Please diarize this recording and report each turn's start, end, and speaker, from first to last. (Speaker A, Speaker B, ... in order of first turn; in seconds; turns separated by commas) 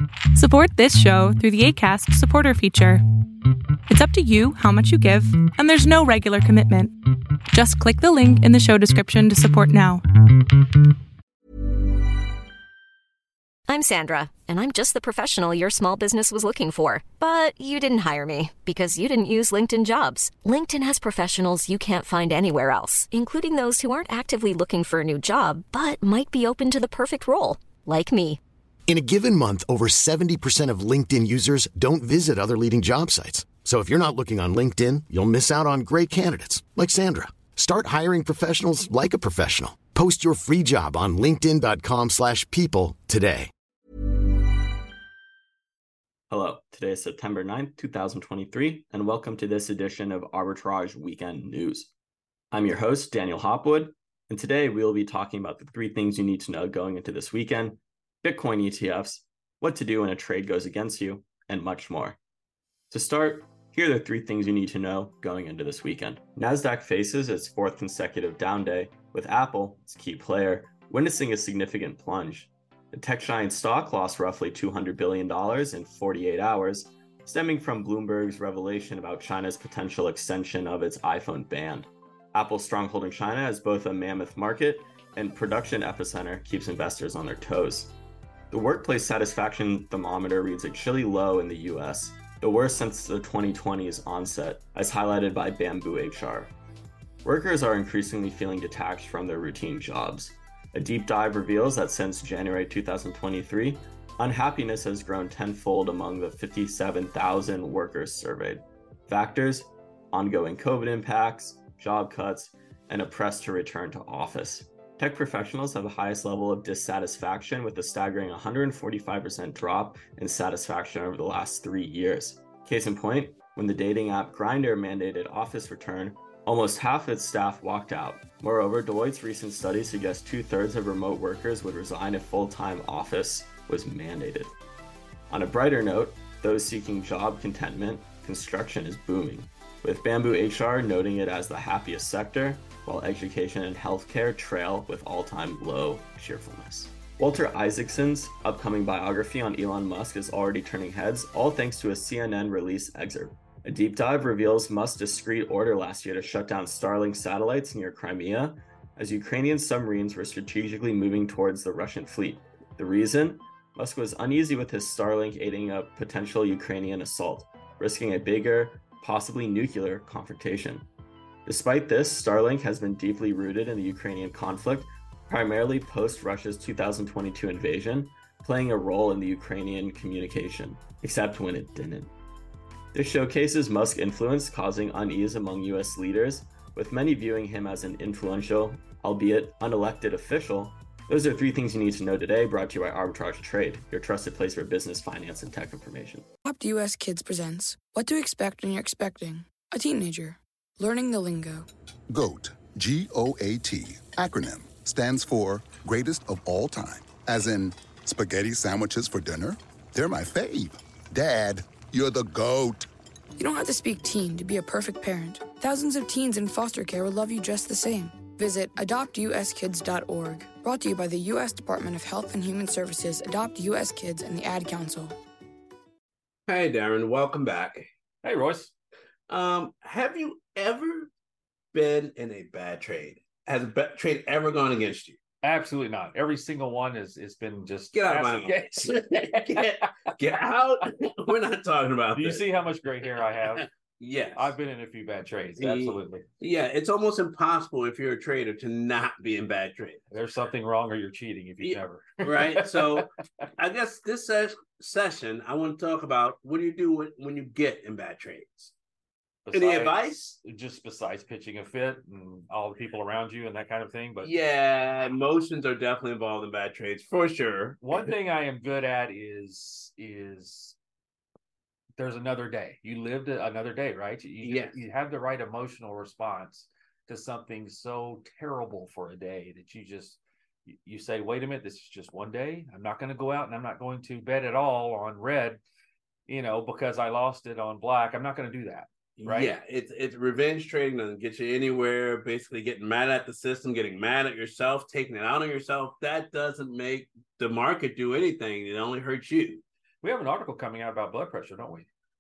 Speaker A: 0.3-3.0, Speaker A: 3.9-6.9, Speaker A: 7.5-10.0, Speaker B: 13.7-28.4, Speaker C: 28.9-43.5, Speaker D: 46.3-51.9, Speaker D: 52.5-62.2, Speaker D: 62.9-87.9, Speaker D: 88.5-96.5, Speaker D: 97.2-134.5, Speaker D: 135.3-170.9, Speaker D: 171.4-182.1, Speaker D: 182.9-196.3, Speaker E: 196.4-201.7, Speaker F: 202.1-212.9, Speaker E: 213.4-225.2, Speaker G: 226.5-227.9, Speaker H: 228.2-228.7, Speaker G: 229.3-231.1, Speaker G: 231.7-235.2, Speaker H: 235.4-239.9, Speaker G: 237.9-242.4, Speaker H: 242.1-243.7, Speaker G: 243.4-244.5, Speaker H: 244.3-246.2, Speaker G: 245.6-250.0, Speaker H: 250.1-253.5, Speaker G: 251.6-258.7, Speaker H: 259.4-264.3, Speaker G: 259.5-260.4, Speaker G: 264.2-268.1, Speaker H: 267.8-270.8, Speaker H: 272.0-285.6, Speaker G: 274.4-274.8, Speaker H: 286.3-289.5, Speaker G: 289.2-299.6, Speaker H: 300.0-301.9